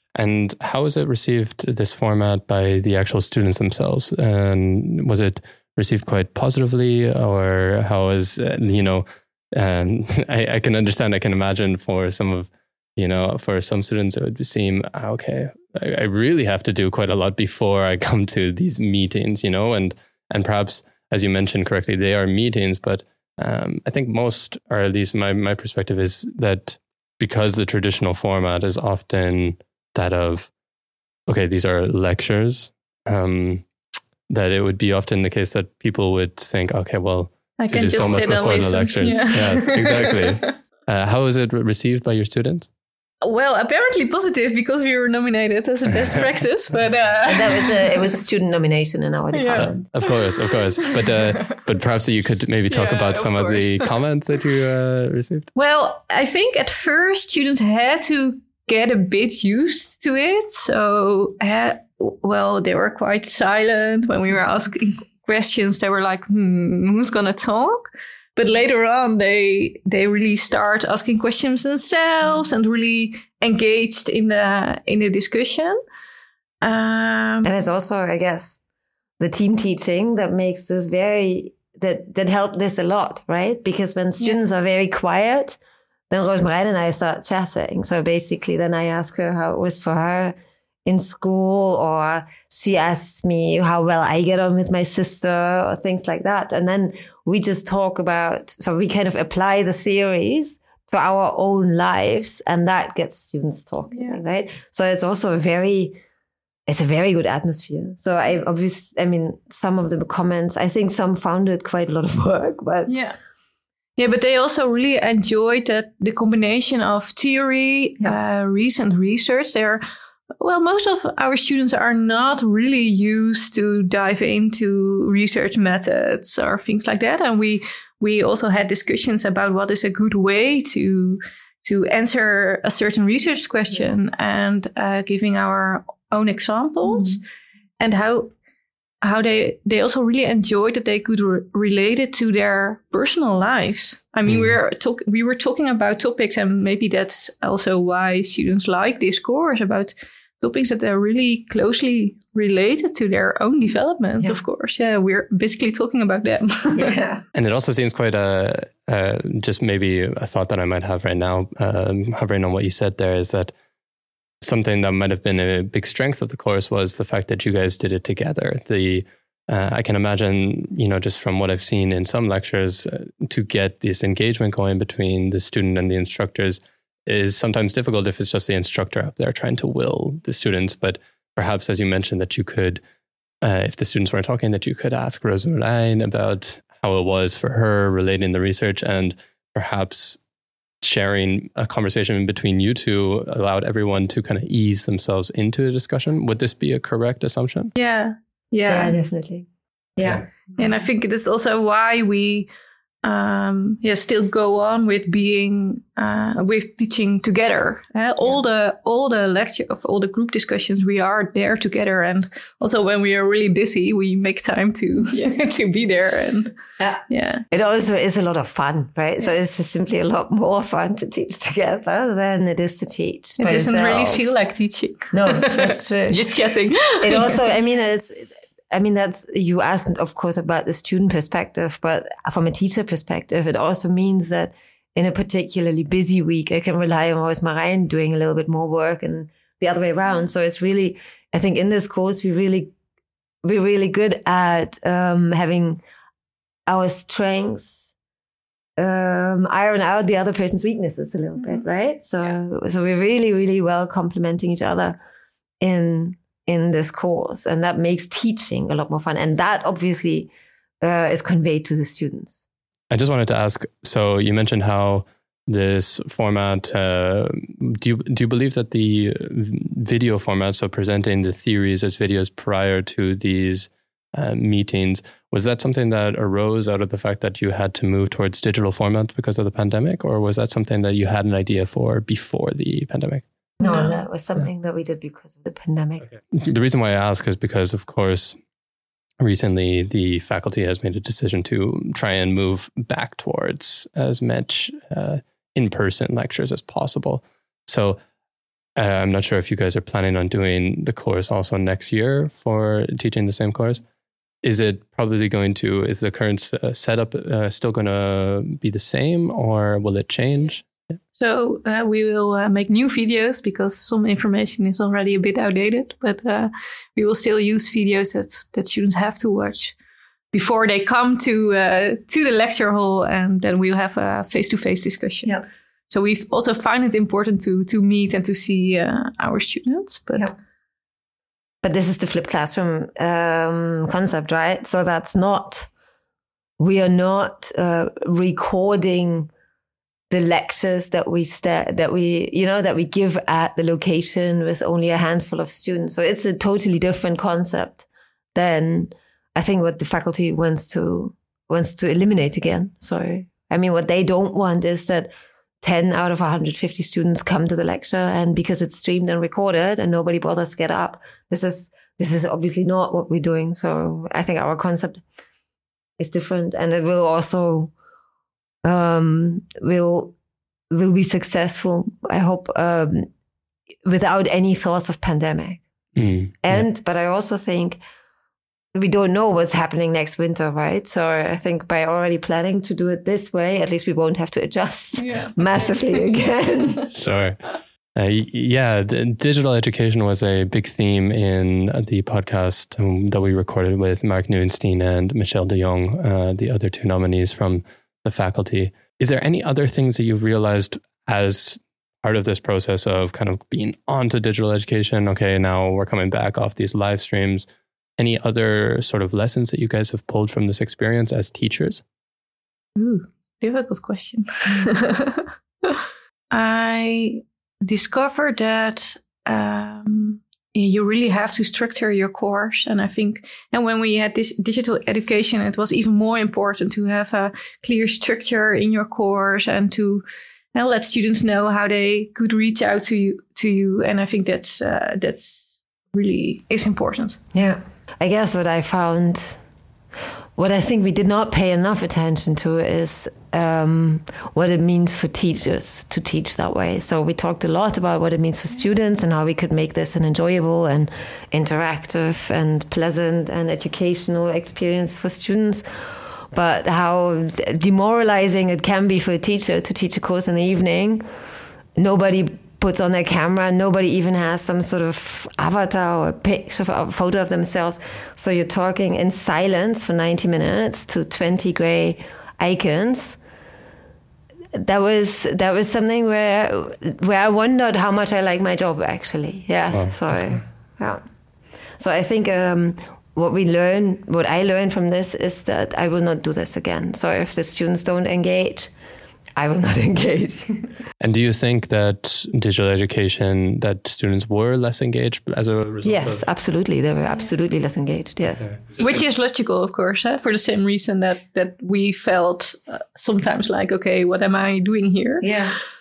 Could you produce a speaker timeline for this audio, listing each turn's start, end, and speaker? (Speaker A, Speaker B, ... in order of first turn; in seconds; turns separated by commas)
Speaker A: 0.1-30.5, Speaker A: 31.3-33.6, Speaker A: 34.3-42.7, Speaker B: 37.6-40.5, Speaker B: 43.2-48.0, Speaker C: 47.2-49.8, Speaker B: 49.3-50.5, Speaker A: 49.5-55.5, Speaker B: 52.7-53.9, Speaker B: 55.5-75.8, Speaker B: 76.6-77.5, Speaker C: 77.4-78.6, Speaker C: 79.2-85.6, Speaker C: 86.1-106.0, Speaker B: 103.9-104.2, Speaker C: 106.7-113.0, Speaker B: 112.9-113.2, Speaker B: 114.0-119.8, Speaker B: 120.4-137.2, Speaker B: 137.8-138.3, Speaker B: 139.0-156.9, Speaker A: 144.3-144.6, Speaker C: 156.7-157.2, Speaker A: 157.3-163.5, Speaker A: 164.4-182.8, Speaker A: 183.4-190.2, Speaker A: 190.8-197.7, Speaker B: 197.8-198.9, Speaker C: 198.7-200.7, Speaker B: 200.6-202.5, Speaker B: 203.0-216.5, Speaker C: 216.8-224.2, Speaker B: 217.1-217.4, Speaker B: 223.4-227.4, Speaker C: 225.1-226.3, Speaker C: 227.0-242.7, Speaker C: 243.4-245.8, Speaker C: 246.7-247.7, Speaker C: 248.8-255.0, Speaker B: 251.4-251.6, Speaker C: 255.6-260.3, Speaker C: 260.8-262.4, Speaker A: 262.9-283.2, Speaker C: 283.6-286.1, Speaker B: 283.6-284.0, Speaker A: 286.3-288.4, Speaker A: 289.2-298.0, Speaker A: 298.8-303.8, Speaker A: 304.4-310.7, Speaker B: 311.2-319.8, Speaker B: 320.3-325.4, Speaker B: 325.9-330.3, Speaker C: 331.6-335.7, Speaker C: 336.6-339.3, Speaker C: 340.1-355.1, Speaker C: 355.6-365.0, Speaker C: 366.0-367.7, Speaker C: 368.6-370.1, Speaker C: 370.7-373.1, Speaker C: 373.8-375.6, Speaker A: 375.9-376.6, Speaker C: 376.4-377.8, Speaker C: 378.7-386.9, Speaker B: 385.0-386.1, Speaker A: 386.9-407.5, Speaker A: 408.0-411.8, Speaker B: 412.8-437.2, Speaker C: 437.3-439.4, Speaker C: 440.4-461.0, Speaker C: 461.8-473.2, Speaker C: 474.5-481.0, Speaker A: 479.7-480.4, Speaker C: 481.8-488.7, Speaker C: 489.4-490.7, Speaker A: 491.0-496.2, Speaker C: 495.8-498.5, Speaker A: 498.4-499.1, Speaker B: 498.8-505.4, Speaker C: 505.2-505.5